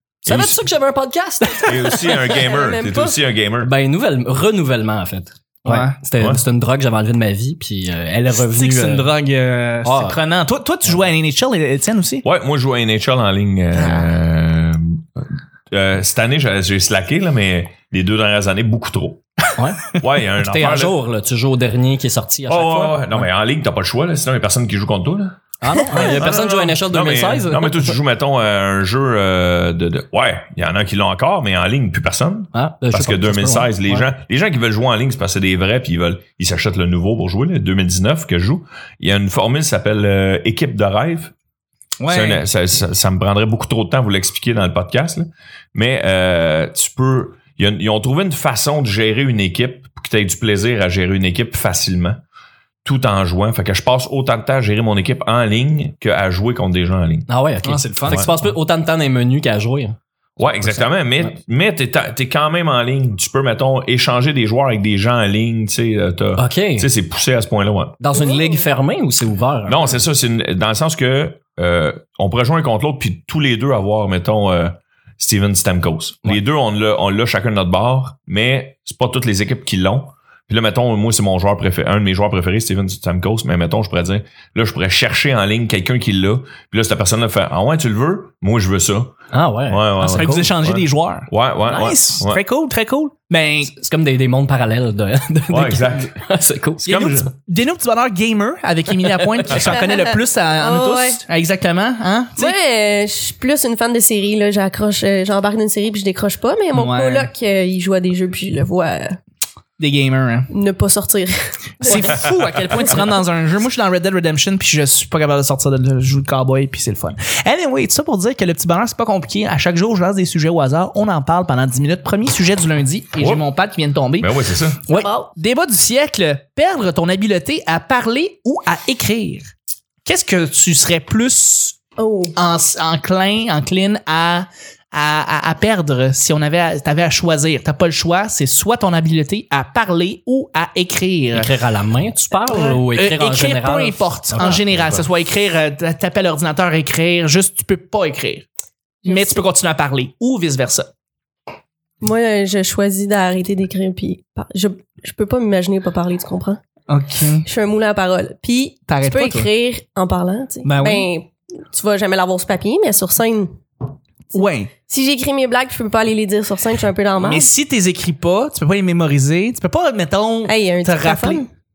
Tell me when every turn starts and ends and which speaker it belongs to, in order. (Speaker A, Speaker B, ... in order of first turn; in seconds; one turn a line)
Speaker A: 0.2-0.6
Speaker B: 0.2-1.9
Speaker A: 1.6-3.7
Speaker C: 2.3-3.2
Speaker B: 3.6-9.1
Speaker D: 5.7-6.0
Speaker A: 6.2-6.4
Speaker D: 8.3-12.2
Speaker B: 9.8-10.2
Speaker A: 12.2-19.3
Speaker D: 13.7-14.1
Speaker B: 19.6-23.2
Speaker A: 19.9-20.9
Speaker A: 22.5-41.3
Speaker B: 25.6-27.9
Speaker B: 32.5-34.0
Speaker D: 42.0-42.4
Speaker A: 42.1-52.2
Speaker A: 52.8-57.3
Speaker B: 57.3-61.3
Speaker D: 57.6-58.3
Speaker A: 58.0-58.4
Speaker A: 60.4-68.0
Speaker B: 66.4-66.9
Speaker B: 68.0-69.9
Speaker C: 68.2-68.4
Speaker A: 69.7-92.4
Speaker B: 89.3-90.4
Speaker D: 90.0-93.7
Speaker B: 93.7-96.9
Speaker A: 95.5-96.1
Speaker A: 96.8-97.3
Speaker D: 96.8-102.5
Speaker A: 99.5-99.7
Speaker C: 99.7-101.2
Speaker C: 102.4-109.2
Speaker D: 106.7-107.3
Speaker D: 109.8-110.5
Speaker C: 110.5-113.0
Speaker D: 111.8-124.3
Speaker A: 124.2-124.8
Speaker D: 124.8-129.5
Speaker C: 124.9-125.3
Speaker D: 130.0-131.8
Speaker C: 132.0-132.3
Speaker D: 132.3-141.5
Speaker B: 141.3-145.0
Speaker D: 142.5-148.4
Speaker C: 149.0-149.4
Speaker D: 149.0-150.9
Speaker C: 152.0-156.6
Speaker D: 156.9-157.5
Speaker C: 157.4-163.5
Speaker D: 158.9-159.5
Speaker D: 160.6-161.1
Speaker D: 164.3-164.7
Speaker C: 164.8-167.5
Speaker D: 167.2-171.4
Speaker C: 170.5-171.4